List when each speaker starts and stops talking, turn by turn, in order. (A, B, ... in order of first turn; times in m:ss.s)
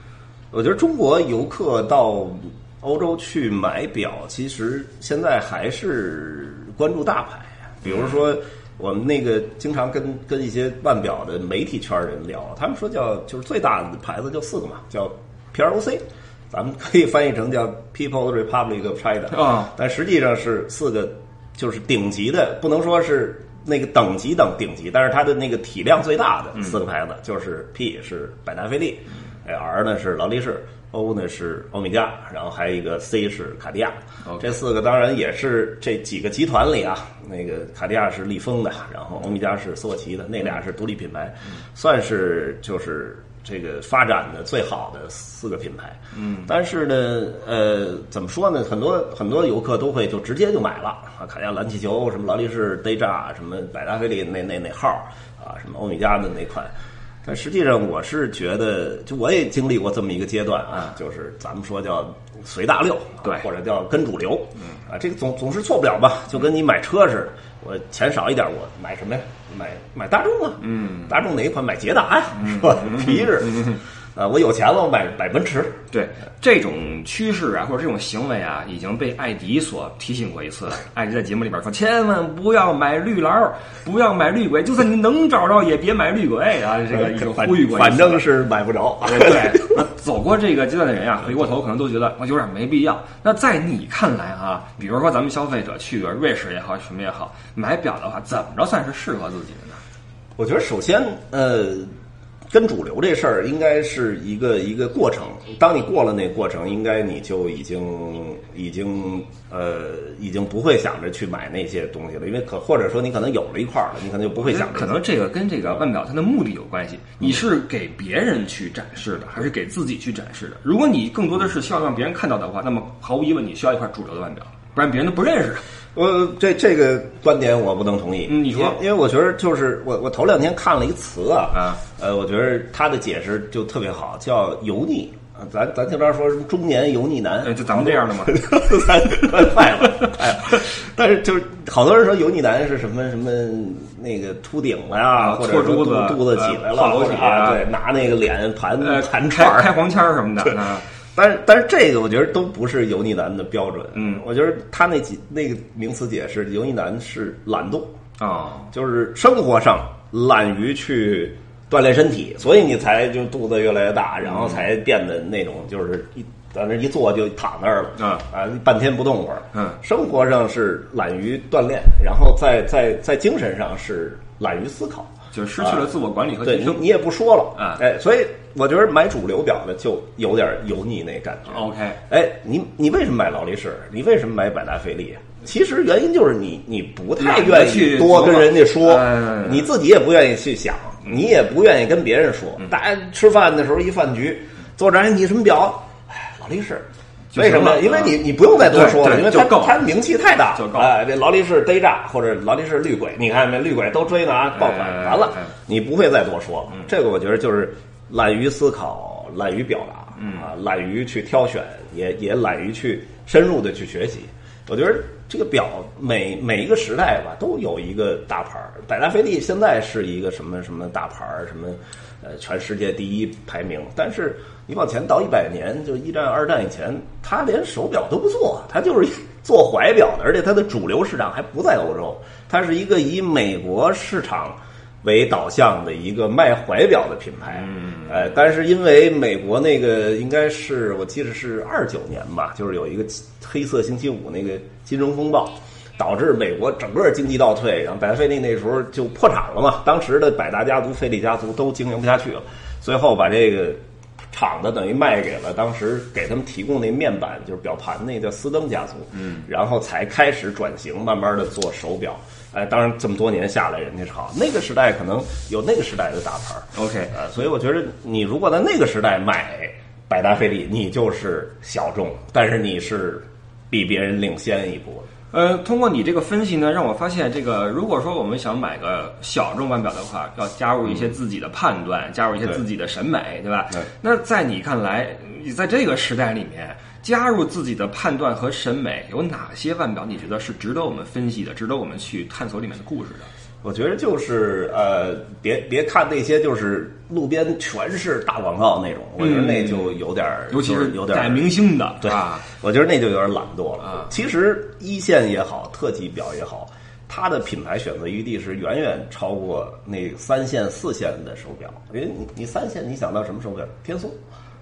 0:00.5-0:56.7 A
0:07.8-0:08.1 B
0:19.3-0:19.7 B
0:34.3-0:34.5 B
0:46.2-0:46.5 B
0:57.2-1:15.8 A
1:10.6-1:11.2 B
1:12.4-1:13.8 B
1:15.9-1:28.2 B
1:26.9-1:29.7 A
1:29.0-1:39.8 B
1:40.4-1:41.9 A
1:42.5-1:55.0 A
1:54.4-2:05.6 B
2:06.0-2:29.8 A
2:08.3-2:08.8 B
2:11.5-2:11.8 B
2:17.4-2:19.5 B
2:25.2-2:27.7 B
2:28.8-2:30.9 B
2:31.1-2:37.9 A
2:34.0-2:34.2 B
2:38.2-2:38.7 B
2:38.7-2:55.9 A
2:44.2-2:44.6 B
2:48.0-2:48.2 B
2:49.5-2:49.8 B
2:55.3-2:56.9 B
2:56.4-4:13.8 A
2:57.6-2:57.8 B
3:01.5-3:02.0 B
3:07.2-3:09.7 B
3:17.3-3:19.9 B
3:20.6-3:20.9 B
3:24.6-3:25.5 B
3:30.2-3:30.5 B
3:57.6-3:58.4 B
4:14.3-4:35.1 A
4:19.1-4:19.4 B
4:26.7-4:27.1 B
4:35.3-4:53.3 B
4:53.6-5:01.5 A
4:59.2-5:00.0 B
5:00.5-5:02.4 B
5:02.0-5:14.2 A